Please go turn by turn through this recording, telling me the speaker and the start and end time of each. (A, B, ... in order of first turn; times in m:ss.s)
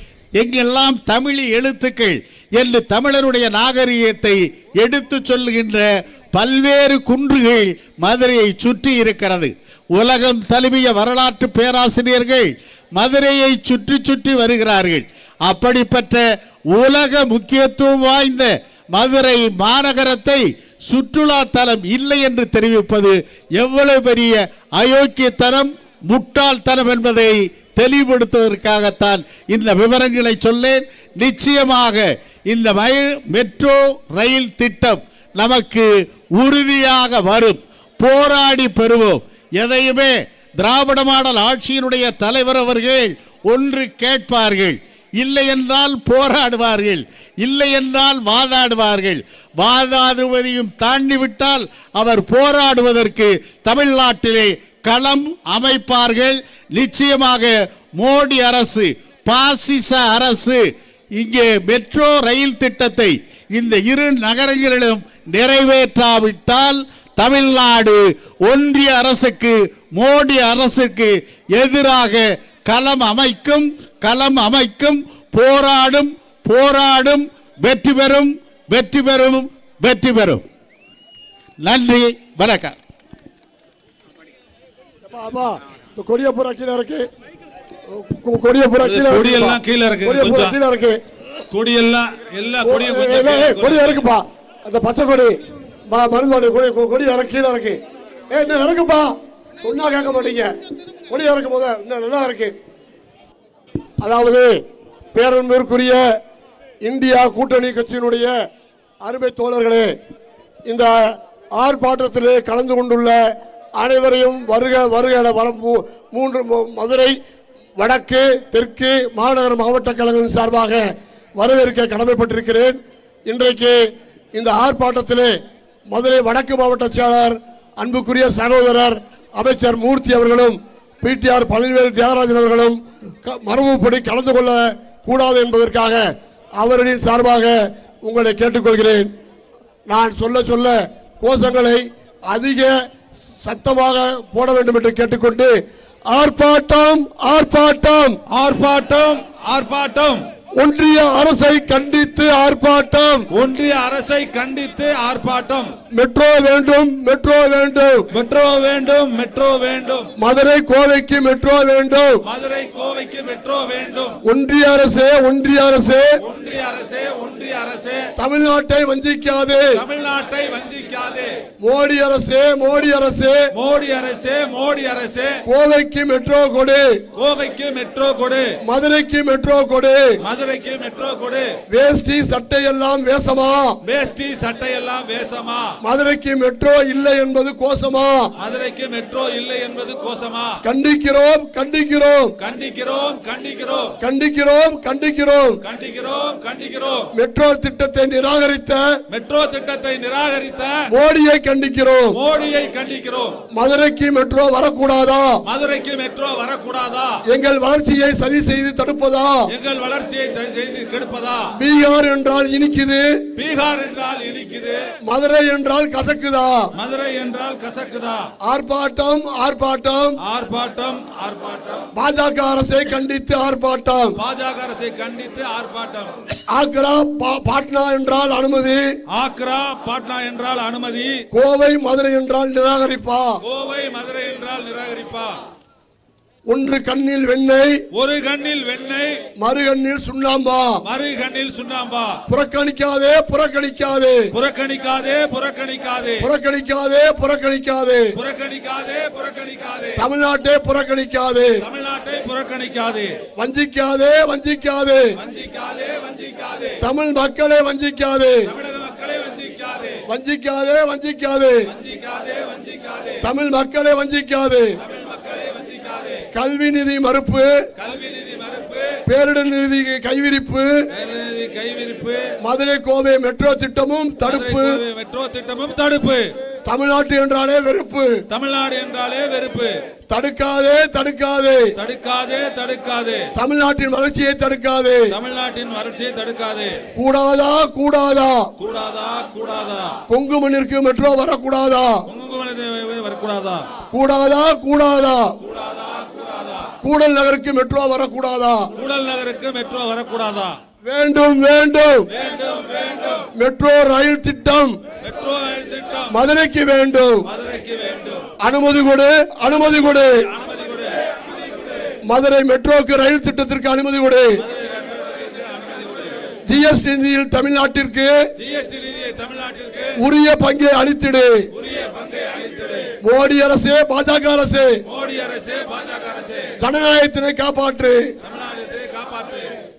0:00.4-1:00.6 A
1:01.2-1:20.4 A
1:21.6-1:22.8 A
1:25.1-1:27.1 B
1:27.9-1:31.0 B
1:28.8-1:30.6 C
1:31.5-1:34.1 C
1:32.6-1:37.8 B
1:38.3-1:40.5 B
1:41.1-1:42.5 B
1:44.0-1:44.6 B
1:45.1-1:46.0 B
1:46.8-1:48.3 B
1:49.0-1:49.9 B
1:50.7-1:51.0 B
1:51.6-1:53.2 B
1:53.8-1:57.2 B
1:57.8-2:00.9 B
2:01.4-2:03.8 B
2:04.3-2:05.3 B
2:05.9-2:16.0 B
2:16.6-2:19.1 B
2:19.9-2:22.7 B
2:23.4-2:25.6 B
2:26.1-2:28.2 B
2:28.3-2:30.2 C
2:30.6-2:33.3 B
2:33.3-2:35.7 C
2:35.9-2:38.0 B
2:38.1-2:40.1 C
2:40.2-2:42.2 B
2:42.2-2:44.2 C
2:44.2-2:46.1 B
2:46.2-2:48.0 C
2:48.2-2:49.8 B
2:49.8-2:51.4 C
2:51.6-2:53.4 B
2:53.6-2:55.4 C
2:55.4-2:57.0 B
2:57.2-2:58.5 C
2:58.6-3:00.2 B
3:00.2-3:01.5 C
3:01.7-3:03.8 B
3:03.8-3:05.7 C
3:05.8-3:08.3 B
3:08.4-3:10.5 C
3:10.6-3:12.3 B
3:12.4-3:14.0 C
3:14.0-3:15.6 B
3:15.6-3:17.1 C
3:17.1-3:18.8 B
3:19.1-3:20.7 C
3:20.9-3:22.2 B
3:22.1-3:23.4 C
3:23.5-3:25.4 B
3:25.4-3:27.1 C
3:27.3-3:29.4 B
3:29.5-3:31.4 C
3:31.6-3:33.2 B
3:33.4-3:34.8 C
3:35.0-3:36.7 B
3:36.8-3:38.3 C
3:38.4-3:40.2 B
3:40.2-3:41.9 C
3:41.9-3:44.2 B
3:44.2-3:46.1 C
3:46.5-3:48.8 B
3:49.1-3:51.2 C
3:51.3-3:53.4 B
3:53.4-3:55.4 C
3:56.5-3:57.8 B
3:57.9-3:59.2 C
3:59.4-4:00.8 B
4:00.8-4:02.2 C
4:02.3-4:04.2 B
4:04.3-4:06.2 C
4:06.2-4:08.1 B
4:08.2-4:10.0 C
4:10.0-4:11.6 B
4:11.6-4:13.1 C
4:13.4-4:15.1 B
4:15.2-4:16.8 C
4:16.8-4:18.5 B
4:18.5-4:20.0 C
4:20.1-4:21.6 B
4:21.7-4:23.2 C
4:23.2-4:24.7 B
4:24.8-4:26.2 C
4:26.3-4:27.5 B
4:27.8-4:29.0 C
4:29.0-4:30.7 B
4:31.0-4:32.2 C
4:32.4-4:34.8 B
4:34.2-4:36.3 C
4:36.6-4:38.1 B
4:38.3-4:39.7 C
4:40.1-4:41.7 B
4:41.8-4:43.2 C
4:43.4-4:45.1 B
4:45.1-4:46.8 C
4:47.0-4:48.5 B
4:48.6-4:50.0 C
4:50.1-4:52.0 B
4:52.1-4:53.6 C
4:53.9-4:55.3 B
4:55.4-4:56.7 C
4:56.8-4:58.6 B
4:58.8-5:00.6 C
5:00.8-5:02.1 B
5:02.1-5:03.3 C
5:03.3-5:04.8 B
5:05.0-5:06.2 C
5:06.1-5:07.3 B
5:07.3-5:08.3 C
5:08.4-5:10.2 B
5:10.3-5:11.0 C
5:12.1-5:14.4 B
5:14.4-5:16.2 C
5:16.5-5:18.2 B
5:18.4-5:19.9 C
5:20.0-5:21.4 B
5:21.5-5:22.9 C
5:23.0-5:24.8 B
5:24.9-5:26.5 C
5:26.6-5:28.0 B
5:28.2-5:29.5 C